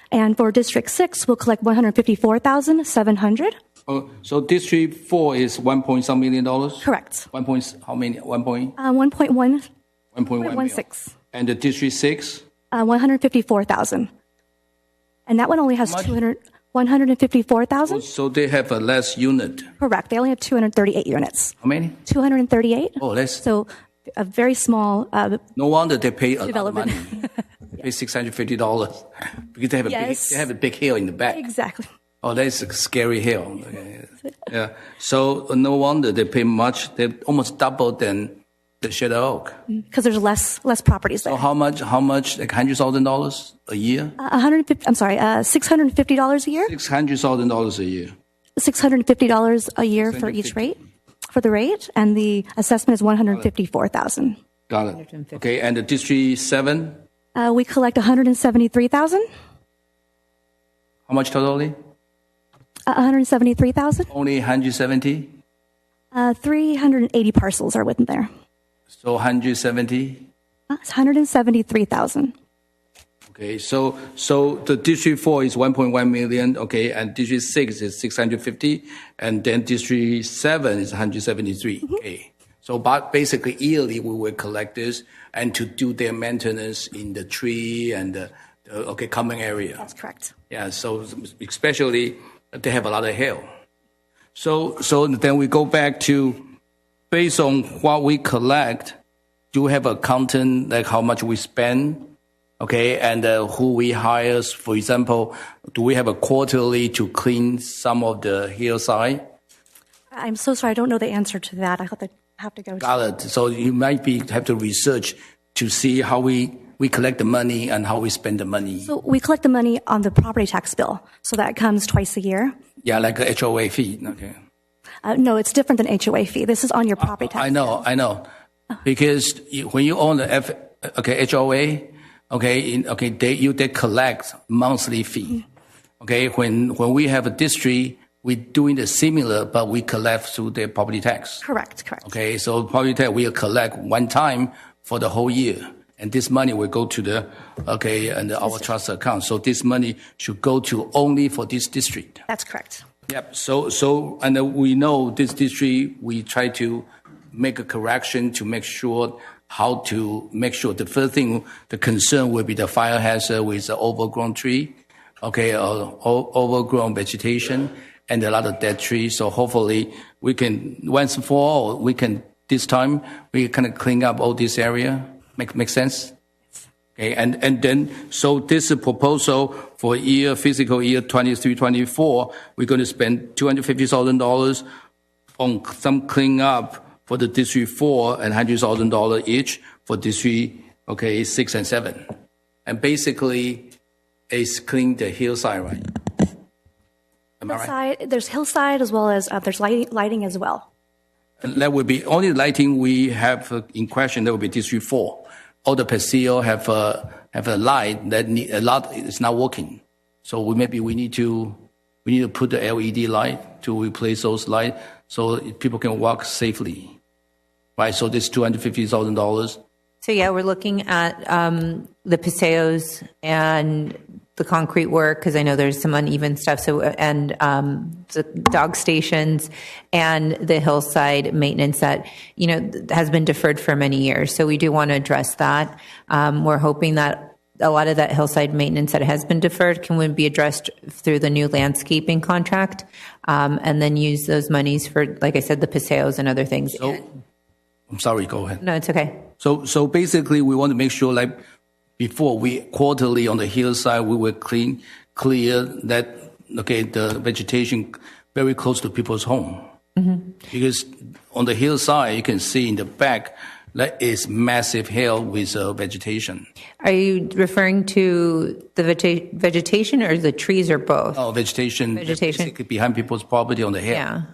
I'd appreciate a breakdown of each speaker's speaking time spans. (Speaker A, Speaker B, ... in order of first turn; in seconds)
Speaker A: 0.1-3.5, 6.8-7.3, 8.8-9.7, 10.4-11.1, 12.7-14.1, 15.3-18.0, 19.8-21.5, 22.1-25.4, 26.4-27.3, 29.9-30.4, 31.3-31.9, 39.7-41.4, 44.2-46.7, 48.6-50.8, 51.3-54.4, 57.3-59.2, 62.9-64.1, 66.1-68.3, 70.7-72.3, 89.8-90.3, 110.1-112.8, 118.8-122.5, 125.0-127.8, 141.4-142.1, 152.3-152.8, 197.5-200.7
Speaker B: 3.9-8.8, 10.1-12.4, 15.8-16.1, 17.9-19.7, 21.6-22.0, 23.0-23.4, 25.5-27.2, 27.8-31.5, 32.2-39.6, 41.2-44.2, 46.7-48.1, 50.0-50.9, 54.7-57.0, 61.1-61.8, 64.1-65.3, 69.0-70.3, 73.3-89.8, 90.5-93.5, 94.3-96.4, 97.1-99.0, 99.5-109.2, 112.8-118.9, 122.8-124.4, 127.0-128.3, 128.8-135.4, 136.0-141.4, 142.0-152.2, 153.1-176.1, 176.9-184.6, 185.4-192.1, 192.7-193.7, 194.3-196.2, 197.4-197.7, 201.4-217.0, 217.8-219.6, 246.7-247.0, 247.9-248.6, 249.4-251.4, 252.0-259.6, 260.5-266.5, 271.1-274.0
Speaker C: 55.0-55.4, 220.0-247.0, 248.6-249.2, 260.0-260.2, 266.8-271.2, 271.9-272.5, 273.9-274.2